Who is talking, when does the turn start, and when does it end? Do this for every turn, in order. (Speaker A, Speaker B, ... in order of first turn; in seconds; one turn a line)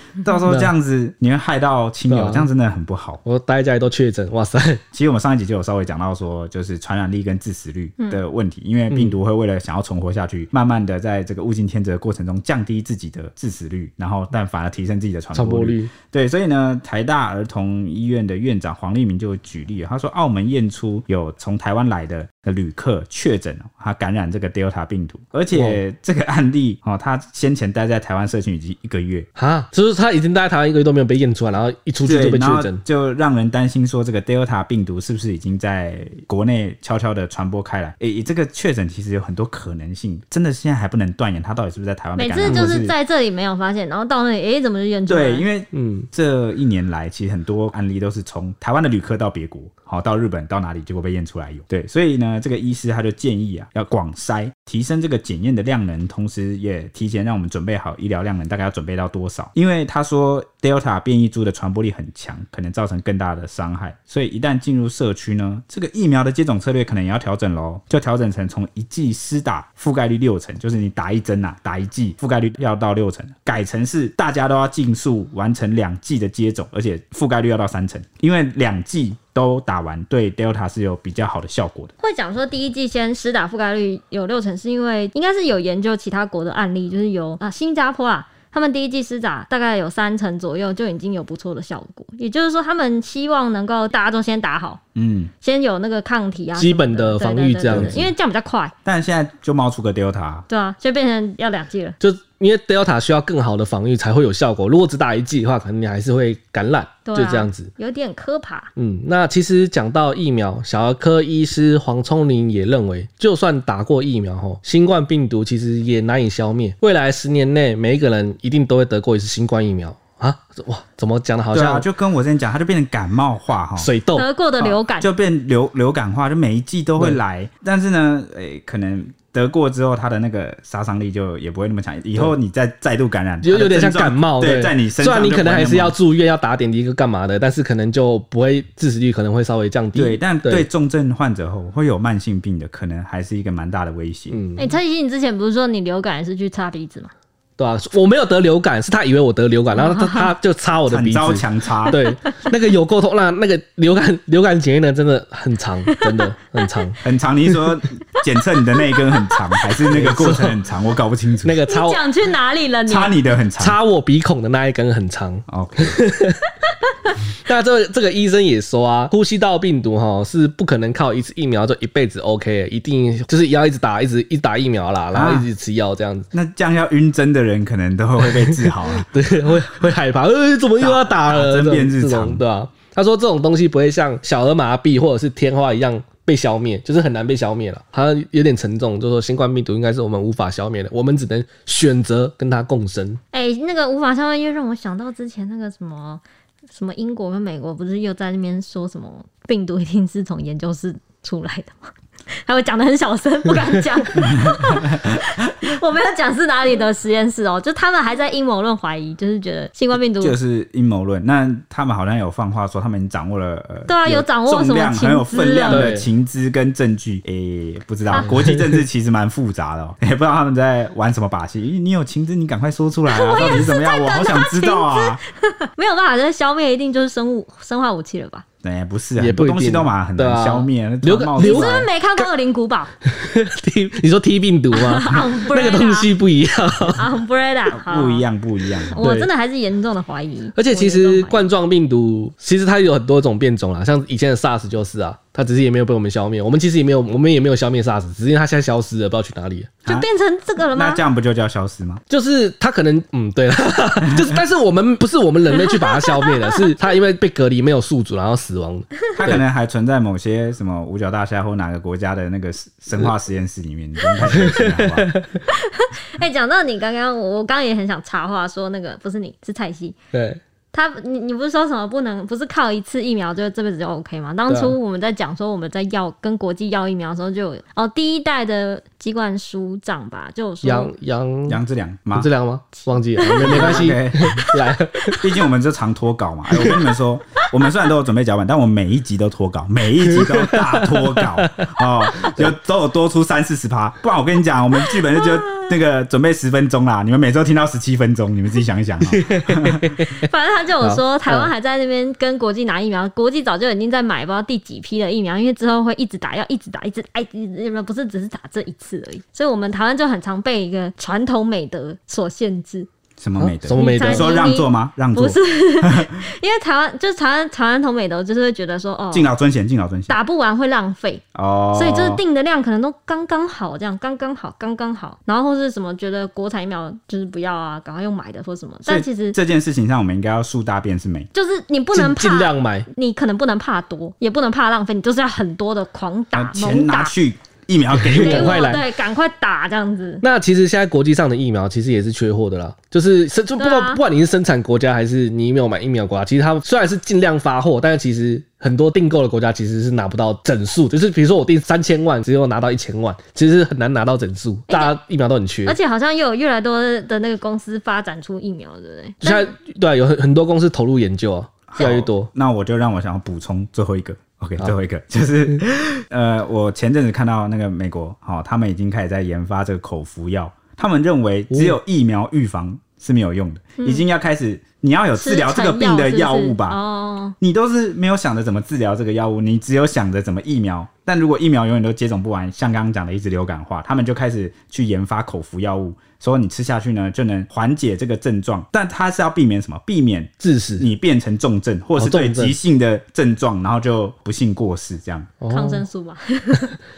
Speaker A: 0.2-3.2
Speaker B: 0.5-0.7
Speaker B: 2.1-2.5
Speaker B: 3.2-4.8
Speaker A: 4.9-29.3
Speaker B: 8.9-9.2
Speaker B: 15.3-15.9
Speaker B: 25.5-25.8
Speaker B: 29.4-32.8
Speaker A: 32.0-43.0
Speaker C: 42.2-45.5
Speaker B: 42.4-42.7
Speaker A: 45.1-81.9
Speaker B: 45.7-46.1
Speaker C: 82.0-94.8
Speaker A: 95.0-95.3
Speaker C: 95.4-98.7
Speaker B: 96.6-98.1
Speaker A: 97.7-98.0
Speaker A: 98.9-100.5
Speaker C: 100.5-102.0
Speaker B: 102.0-107.7
Speaker C: 107.0-108.7
Speaker B: 108.8-121.9
Speaker A: 121.5-123.9
Speaker B: 123.8-124.3
Speaker C: 124.1-125.1
Speaker A: 124.6-136.0
Speaker B: 133.4-140.7
Speaker A: 139.9-144.4
Speaker B: 144.3-144.8
Speaker C: 144.6-147.1
Speaker B: 147.6-157.0
Speaker C: 149.7-150.3
Speaker A: 150.9-152.0
Speaker C: 151.9-152.3
Speaker A: 157.0-161.6
Speaker C: 158.7-159.9
Speaker B: 159.9-160.7
Speaker B: 161.4-162.0
Speaker C: 161.7-163.2
Speaker A: 162.9-163.8
Speaker B: 163.6-166.5
Speaker A: 165.5-166.0
Speaker B: 167.3-176.3
Speaker A: 175.1-175.5
Speaker A: 176.3-179.1
Speaker B: 178.2-193.2
Speaker A: 180.8-182.4
Speaker C: 193.3-196.2
Speaker C: 196.7-201.9
Speaker C: 202.4-210.4
Speaker A: 210.2-225.2
Speaker C: 213.9-215.9
Speaker B: 215.7-216.1
Speaker B: 218.1-218.7
Speaker C: 223.1-228.4
Speaker A: 228.6-231.9
Speaker B: 229.2-232.2
Speaker C: 231.4-232.9
Speaker B: 233.1-237.0
Speaker C: 234.7-236.1
Speaker C: 236.9-238.2
Speaker A: 237.7-239.1
Speaker C: 238.9-241.4
Speaker B: 239.0-239.3
Speaker B: 240.6-249.8
Speaker C: 249.9-251.0
Speaker A: 250.7-252.0
Speaker B: 252.1-259.4
Speaker A: 254.1-254.4
Speaker C: 256.0-256.4
Speaker A: 259.1-265.1
Speaker B: 264.4-265.4
Speaker C: 265.5-269.9
Speaker B: 270.1-270.4
Speaker C: 270.7-280.9
Speaker B: 274.5-274.8
Speaker B: 280.6-281.6
Speaker A: 281.5-282.3
Speaker B: 282.1-285.2
Speaker C: 282.9-285.3
Speaker A: 283.2-284.4
Speaker A: 285.2-300.0
Speaker B: 290.0-292.5
Speaker C: 294.9-295.7
Speaker B: 299.1-300.1
Speaker C: 300.2-312.9
Speaker B: 300.8-301.5
Speaker A: 313.2-316.1
Speaker B: 313.4-314.5
Speaker C: 313.7-319.3
Speaker A: 319.1-320.1
Speaker C: 320.1-321.2
Speaker A: 321.4-322.2
Speaker C: 321.7-329.4
Speaker A: 328.9-331.3
Speaker C: 331.3-337.1
Speaker B: 331.9-332.9
Speaker A: 336.3-338.6
Speaker B: 337.9-338.9
Speaker C: 338.2-340.2
Speaker B: 340.2-355.8
Speaker C: 343.6-344.0
Speaker C: 354.7-355.0
Speaker C: 355.7-359.5
Speaker B: 359.2-362.3
Speaker A: 361.7-376.8
Speaker B: 371.5-371.8
Speaker C: 373.8-374.0
Speaker C: 375.2-377.4
Speaker A: 377.4-395.3
Speaker B: 390.4-390.9
Speaker B: 392.0-392.6
Speaker B: 395.4-395.9
Speaker C: 395.5-396.8